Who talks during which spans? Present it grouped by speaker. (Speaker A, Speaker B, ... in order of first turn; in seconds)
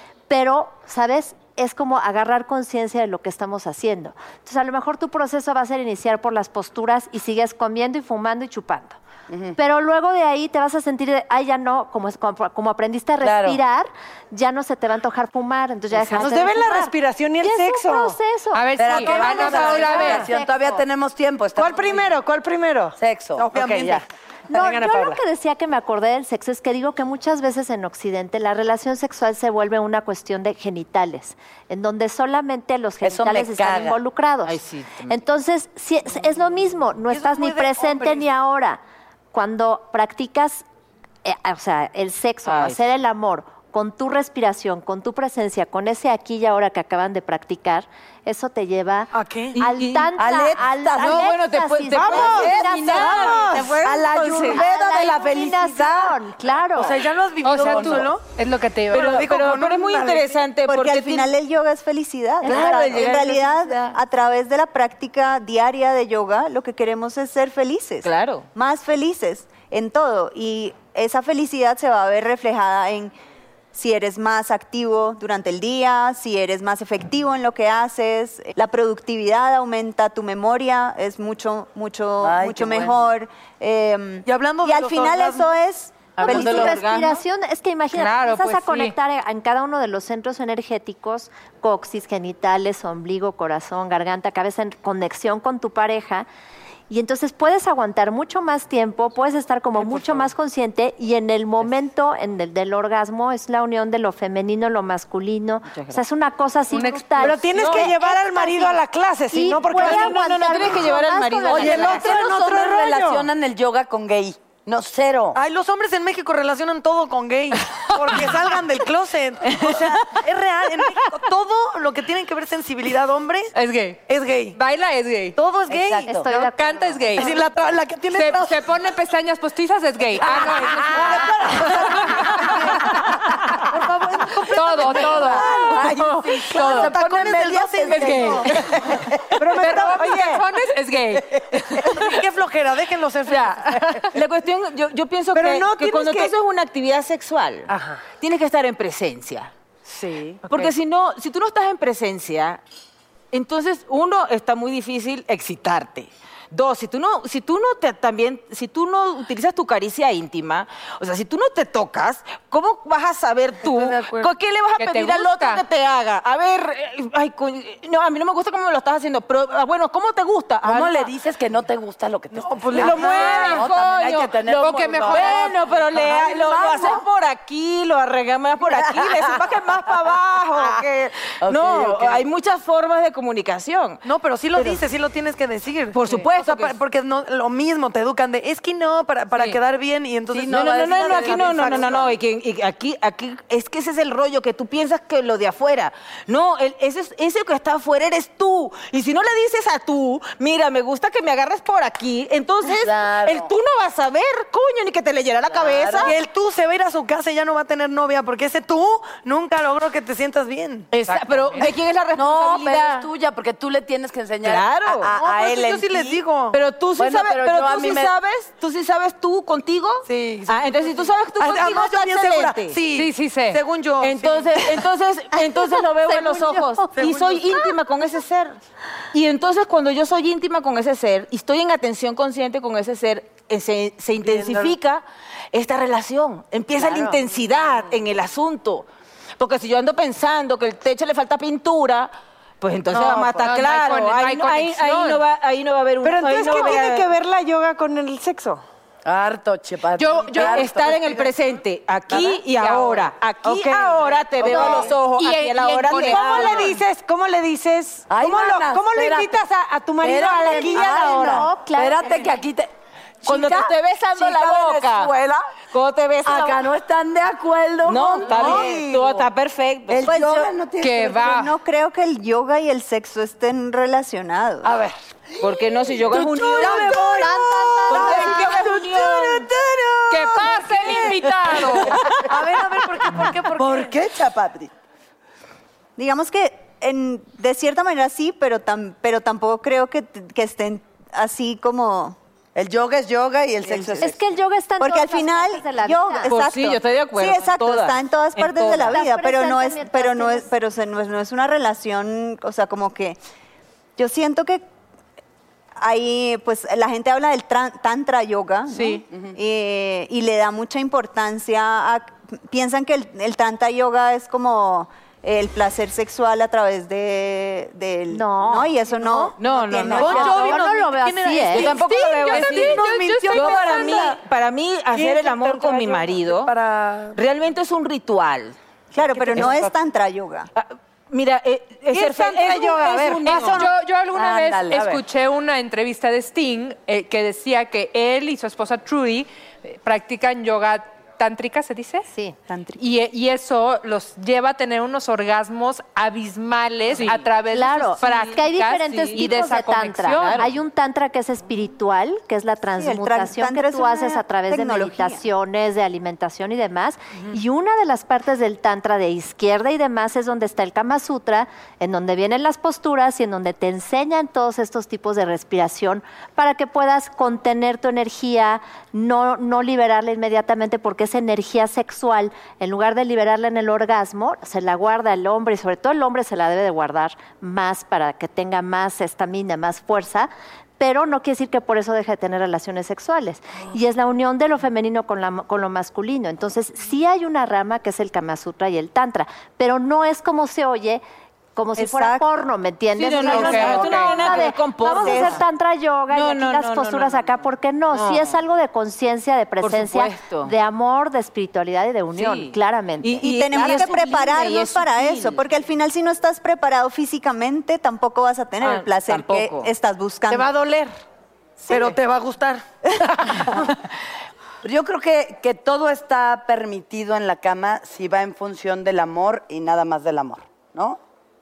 Speaker A: 0.3-9.0, 9.6-20.6, 24.5-38.8, 39.3-40.6, 41.2-53.7, 54.5-57.0, 62.4-62.9, 86.2-96.3, 96.9-108.8, 109.3-112.0, 126.1-127.2, 226.1-226.9, 236.8-237.2, 254.5-254.8, 260.5-262.3, 277.2-278.4, 294.0-296.3, 298.9-300.5, 318.1-319.3, 320.0-321.7, 347.5-391.0, 391.6-403.9
Speaker B: 9.3-9.6, 13.2-13.6, 18.8-22.1, 23.0-24.0, 33.0-34.0, 50.2-51.4, 52.0-56.2, 57.6-58.1, 82.2-83.1, 111.5-115.4, 125.7-126.3, 131.6-132.1, 134.8-140.1, 170.6-177.0, 178.6-179.4, 181.4-182.3, 190.3-192.1, 202.7-203.5, 205.5-206.2, 212.1-216.2, 217.0-218.2, 234.2-234.8, 243.1-243.5, 246.4-246.8, 249.1-251.3, 252.1-252.4, 253.6-255.0, 258.1-259.4, 260.0-262.7, 263.2-265.4, 266.2-269.3, 269.9-271.4, 275.9-282.2, 283.6-284.7, 292.6-294.2, 333.3-335.0, 414.6-421.0
Speaker C: 15.9-18.2, 19.0-20.2, 21.6-24.0, 24.5-25.2, 52.0-53.8, 99.8-100.3, 107.2-110.5, 111.6-113.3, 139.4-140.4, 145.4-146.3, 147.7-148.0, 149.9-150.7, 246.0-248.6, 253.5-254.8, 256.0-261.5, 325.0-326.1, 329.0-329.7, 331.9-333.5, 410.3-410.9
Speaker D: 18.5-20.3, 57.4-59.1, 87.9-89.0, 106.7-107.4, 123.5-124.0, 124.5-125.4, 126.3-127.4, 128.1-133.6, 134.5-135.8, 136.5-136.9, 137.9-138.6, 139.6-142.0, 164.8-165.6, 174.5-175.6, 211.0-211.7, 222.9-223.6, 242.9-245.2, 250.0-250.7, 252.5-253.1, 255.0-256.8, 270.8-271.5, 280.1-282.0, 321.7-324.1, 333.3-342.1, 342.8-350.5, 393.3-394.1
Speaker E: 23.5-24.0, 37.1-38.2, 49.1-49.6, 56.8-58.2, 58.9-60.4, 84.3-85.5, 115.3-123.5, 124.1-124.6, 125.4-126.2, 127.2-128.6, 130.2-132.9, 133.7-135.7, 136.6-138.5, 141.9-143.7, 163.6-164.3, 172.3-173.3, 184.0-192.1, 206.0-210.9, 215.2-216.6, 220.1-224.8, 227.0-227.6, 282.2-283.9, 320.0-324.2, 326.4-327.2, 411.7-412.6
Speaker F: 34.5-35.1, 42.5-42.8, 49.5-50.1, 51.0-54.6, 58.9-61.3, 62.4-64.0, 68.0-68.5, 86.2-87.2, 105.7-106.0, 107.6-107.9, 109.8-112.2, 144.1-149.5, 150.5-152.6, 153.3-171.1, 172.8-184.0, 185.9-186.8, 190.5-206.1, 210.9-213.1, 214.4-215.1, 216.5-222.8, 224.0-228.6, 229.1-247.1, 250.4-256.8, 263.2-265.1, 265.7-266.6, 267.9-270.1, 275.4-277.1, 277.9-279.5, 296.3-299.0, 319.4-320.6, 321.5-326.5, 327.1-328.6, 330.6-333.7, 346.9-347.2, 348.0-348.3, 349.0-349.3, 350.2-350.5, 392.9-395.4, 396.1-397.4, 397.9-398.4, 399.6-400.5, 402.1-405.4, 408.6-409.7
Speaker G: 60.6-73.1, 73.7-86.8, 270.1-270.5, 271.2-274.7, 286.0-292.2, 293.7-294.2, 294.8-303.2, 304.0-304.6, 305.8-320.6, 328.9-330.5, 342.5-342.8, 352.8-355.2, 391.8-392.3, 393.2-395.4, 403.2-410.6, 411.6-412.0